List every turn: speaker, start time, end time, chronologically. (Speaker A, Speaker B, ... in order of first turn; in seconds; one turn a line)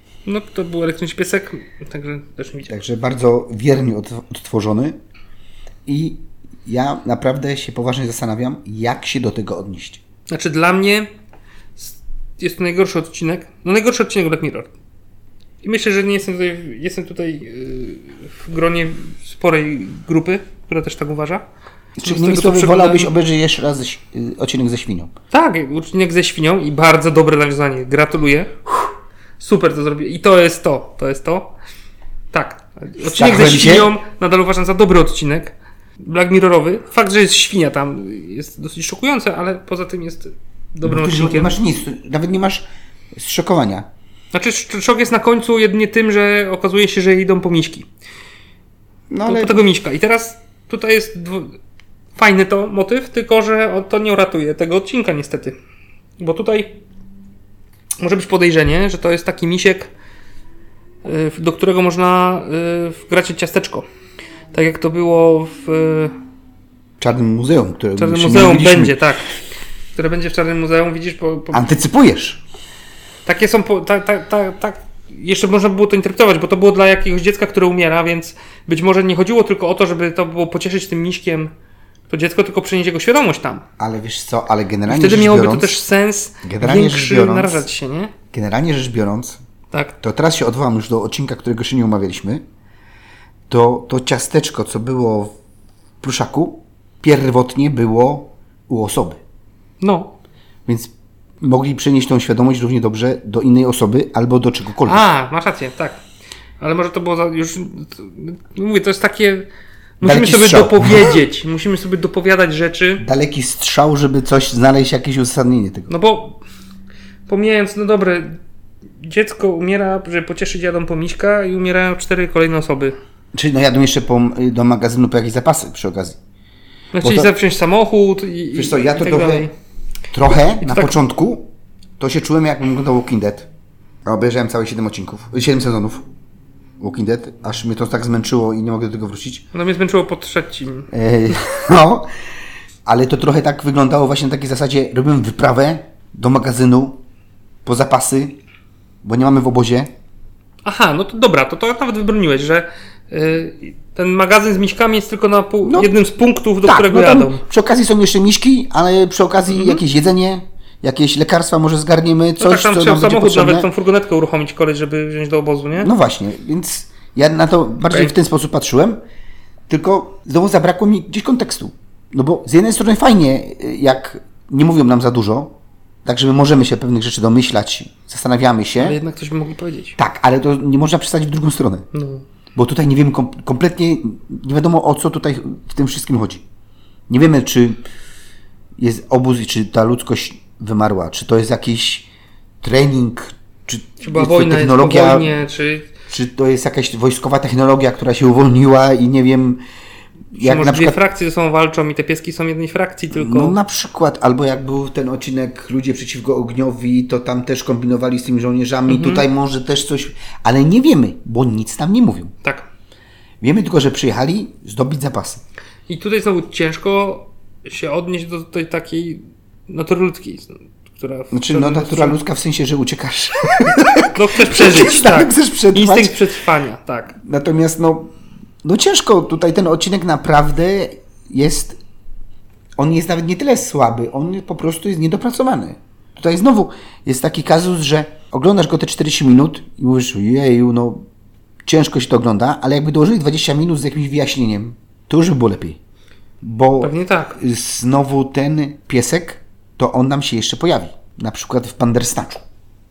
Speaker A: 0.2-2.7
Speaker B: 2.7-5.0
Speaker B: 5.8-10.0
Speaker A: 10.3-11.1
Speaker A: 11.8-14.7
Speaker A: 15.6-21.4
Speaker B: 21.9-25.1
Speaker A: 22.0-23.1
Speaker A: 25.3-28.5
Speaker A: 29.4-31.5
Speaker A: 32.3-41.5
Speaker B: 33.0-33.9
Speaker B: 40.8-43.9
Speaker A: 44.3-47.9
Speaker B: 49.1-49.6
Speaker A: 49.2-51.6
Speaker A: 52.1-55.5
Speaker A: 56.2-56.8
Speaker A: 58.0-59.9
Speaker A: 61.0-63.9
Speaker A: 64.5-66.1
Speaker B: 67.0-69.0
Speaker A: 68.0-69.3
Speaker A: 69.9-71.6
Speaker B: 71.5-72.4
Speaker A: 73.2-81.5
Speaker A: 82.1-83.6
Speaker B: 83.8-85.8
Speaker A: 84.9-88.1
Speaker B: 86.4-87.7
Speaker B: 88.3-89.4
Speaker B: 90.0-92.4
Speaker B: 93.5-95.3
Speaker B: 96.0-99.2
Speaker A: 99.8-100.1
Speaker B: 100.7-105.0
Speaker A: 104.8-106.0
Speaker A: 106.6-109.5
Speaker A: 110.0-113.0
Speaker B: 110.0-111.2
Speaker B: 113.0-115.9
Speaker A: 115.9-116.4
Speaker A: 117.3-118.4
Speaker A: 119.0-122.9
Speaker B: 123.3-126.2
Speaker A: 126.9-129.5
Speaker B: 127.0-127.3
Speaker B: 128.5-129.5
Speaker B: 130.1-133.5
Speaker A: 130.6-130.9
Speaker B: 134.0-136.1
Speaker B: 136.8-139.4
Speaker A: 139.5-140.9
Speaker B: 140.9-142.1
Speaker B: 142.8-147.0
Speaker B: 147.6-148.4
Speaker B: 149.0-149.9
Speaker A: 150.6-157.4
Speaker B: 155.6-155.9
Speaker B: 156.6-163.7
Speaker A: 159.5-159.8
Speaker A: 162.4-165.9
Speaker B: 165.8-169.0
Speaker B: 169.7-179.0
Speaker A: 178.8-180.0
Speaker B: 180.0-181.9
Speaker A: 181.9-182.2
Speaker B: 182.5-186.4
Speaker B: 187.1-187.8
Speaker B: 188.8-192.1
Speaker B: 192.6-195.4
Speaker A: 194.0-195.9
Speaker B: 196.1-199.6
Speaker B: 200.3-201.0
Speaker A: 200.4-203.6
Speaker B: 203.1-212.3
Speaker A: 208.9-209.2
Speaker B: 213.4-215.4
Speaker A: 215.9-222.2
Speaker B: 221.3-226.2
Speaker A: 224.1-227.2
Speaker B: 227.2-231.8
Speaker B: 232.8-241.0
Speaker B: 241.7-245.8
Speaker B: 246.4-252.4
Speaker A: 246.8-247.4